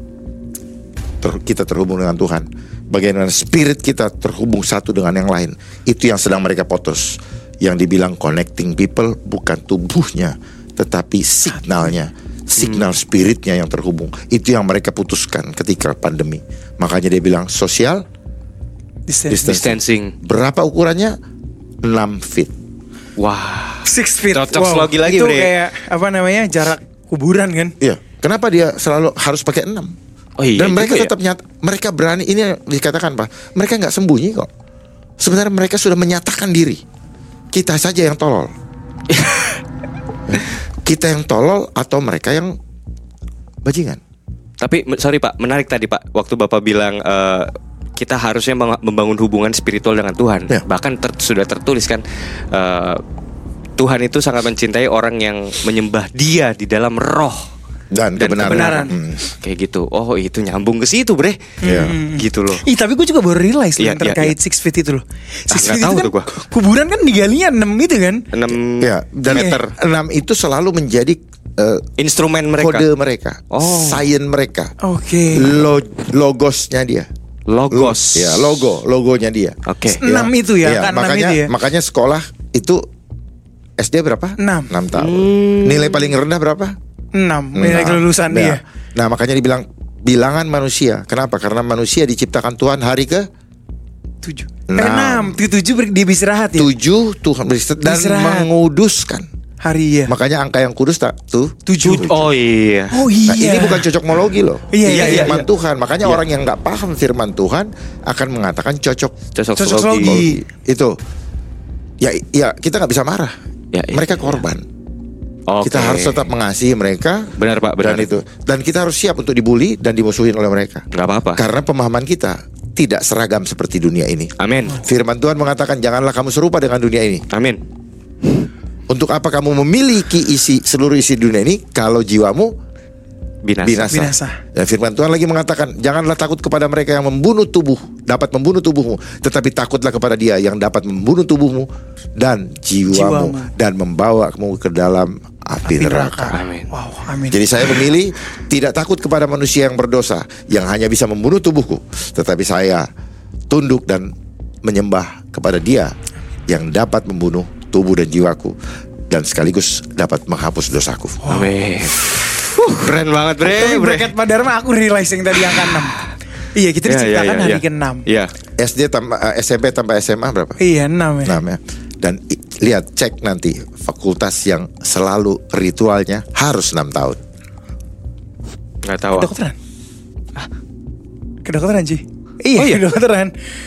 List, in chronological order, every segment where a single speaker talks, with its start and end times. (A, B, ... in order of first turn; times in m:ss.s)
0:01.2-0:18.0 A
0:11.5-0:11.9 B
0:12.6-0:12.9 C
0:19.1-0:19.4 B
0:19.3-0:21.2 A
0:19.4-0:20.1 C
0:21.8-0:22.5 A
0:23.2-0:25.5 C
0:23.8-0:27.8 B
0:27.8-0:30.0 A
0:30.4-0:31.1 C
0:30.6-0:34.5 A
0:35.2-0:36.8 A
0:37.5-0:38.5 A
0:39.1-0:39.6 C
0:40.3-0:42.6 A
0:43.6-0:44.0 A
0:44.6-0:53.0 C
0:53.8-0:57.5 C
0:57.9-0:59.2 A
0:58.2-1:02.6 C
0:58.4-0:58.9 B
1:01.6-1:08.2 B
1:01.6-1:01.9 A
1:03.8-1:04.3 C
1:05.5-1:06.3 C
1:08.3-1:09.5 C
1:08.8-1:11.8 A
1:09.3-1:09.6 B
1:12.0-1:12.9 C
1:12.6-1:14.7 A
1:13.5-1:14.1 C
1:14.8-1:15.5 B
1:15.4-1:17.1 A
1:17.5-1:18.6 C
1:17.7-1:22.9 A
1:19.7-1:20.0 C
1:20.0-1:21.5 B
1:23.8-1:26.8 A
1:24.4-1:24.7 B
1:25.0-1:26.1 C
1:27.1-1:28.6 B
1:27.6-1:33.3 A
1:34.2-1:36.7 B
1:34.7-1:35.4 A
1:36.6-1:39.3 A
1:37.8-1:38.5 B
1:39.6-1:40.1 B
1:40.1-1:42.3 A
1:41.7-1:42.1 B
1:41.8-1:43.0 C
1:42.9-1:43.9 B
1:43.3-1:49.2 A
1:44.7-1:45.4 B
1:44.8-1:45.4 C
1:49.4-1:50.2 C
1:49.6-1:50.4 B
1:50.0-1:51.0 A
1:52.0-1:53.4 A
1:53.7-1:54.4 C
1:53.9-1:54.6 A
1:55.5-1:56.3 C
1:55.6-2:07.2 A
1:57.4-1:58.1 C
2:00.9-2:01.4 C
2:04.4-2:04.8 C
2:07.3-2:07.6 C
2:08.9-2:12.5 A
2:13.4-2:14.0 C
2:13.6-2:26.4 A
2:13.9-2:14.4 B
2:22.9-2:23.5 B
2:25.7-2:27.5 B
2:26.3-2:26.7 C
2:27.3-2:32.9 A
2:33.5-2:34.1 A
2:34.6-2:35.9 A
2:36.5-2:38.6 A
2:39.1-2:41.3 A
2:41.2-2:41.5 B
2:41.3-2:44.1 C
2:43.4-2:46.0 B
2:45.5-2:45.9 C
2:46.5-2:48.0 B
2:46.8-2:48.3 C
2:48.6-2:50.6 A
2:50.6-2:51.4 B
2:51.2-2:57.2 A
2:58.8-2:59.3 C
2:59.1-2:59.6 B
3:01.4-3:03.3 B
3:02.6-3:02.8 C